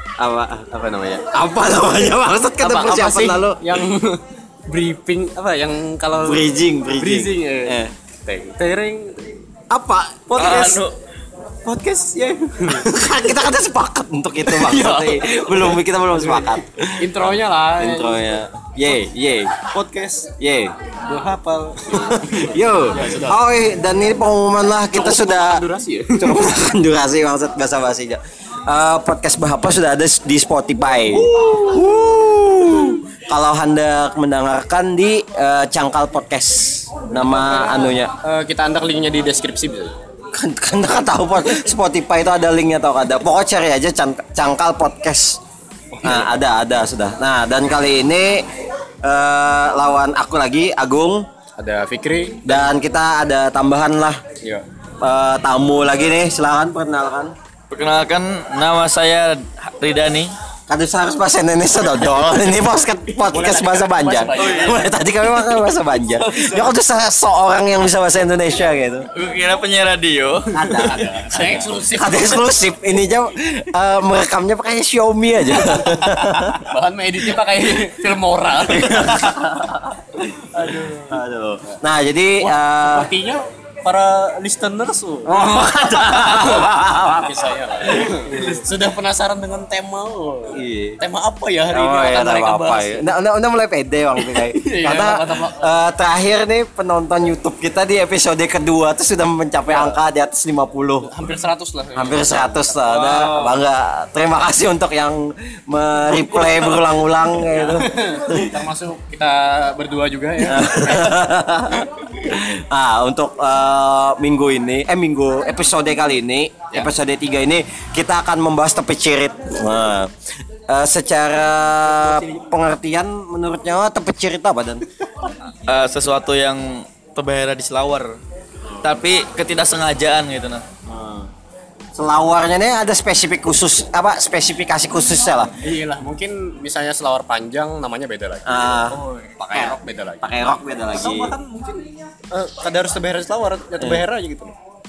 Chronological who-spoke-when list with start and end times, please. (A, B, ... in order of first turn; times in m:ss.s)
0:00.2-0:00.7 A
0:00.6-0:01.2 B
0:01.3-0:03.8 A
0:02.6-0:09.3 B
0:06.2-0:07.9 A
0:09.7-0:10.8 A
0:10.3-0:10.9 C
0:11.6-0:12.9 B
0:12.6-0:19.6 A
0:14.4-0:18.4 B
0:19.7-0:20.3 B
0:20.4-0:20.8 A
0:21.0-0:23.4 B
0:21.9-0:25.6 A
0:24.9-0:26.4 B
0:26.1-0:38.1 A
0:30.9-0:31.9 B
0:37.2-0:39.9 B
0:40.3-0:45.4 A
0:45.9-0:46.3 B
0:46.0-0:48.5 A
0:49.0-0:51.3 A
0:51.6-0:52.7 B
0:52.4-0:54.2 A
0:55.0-0:57.3 A
0:57.7-1:00.3 C
1:00.7-1:09.1 A
1:03.3-1:04.8 B
1:04.4-1:04.8 C
1:06.2-1:06.7 C
1:09.1-1:11.1 C
1:10.5-1:16.7 A
1:10.8-1:12.4 B
1:16.6-1:19.1 B
1:18.7-1:20.2 A
1:20.5-1:21.8 B
1:21.0-1:23.1 A
1:22.4-1:25.4 B
1:25.2-1:28.6 A
1:25.3-1:26.4 C
1:26.2-1:33.1 B
1:30.5-1:31.0 A
1:31.7-1:41.1 A
1:34.2-1:35.7 B
1:39.7-1:40.0 B
1:41.0-1:42.8 B
1:42.0-1:48.5 A
1:42.9-1:43.6 C
1:47.5-1:51.2 B
1:50.4-2:04.8 A
2:02.0-2:02.4 B
2:05.7-2:08.2 C
2:08.8-2:10.6 C
2:10.8-2:11.3 A
2:11.9-2:15.5 A
2:15.6-2:24.5 B
2:18.4-2:19.0 A
2:18.9-2:19.6 C
2:20.2-2:21.3 A
2:23.8-2:24.0 A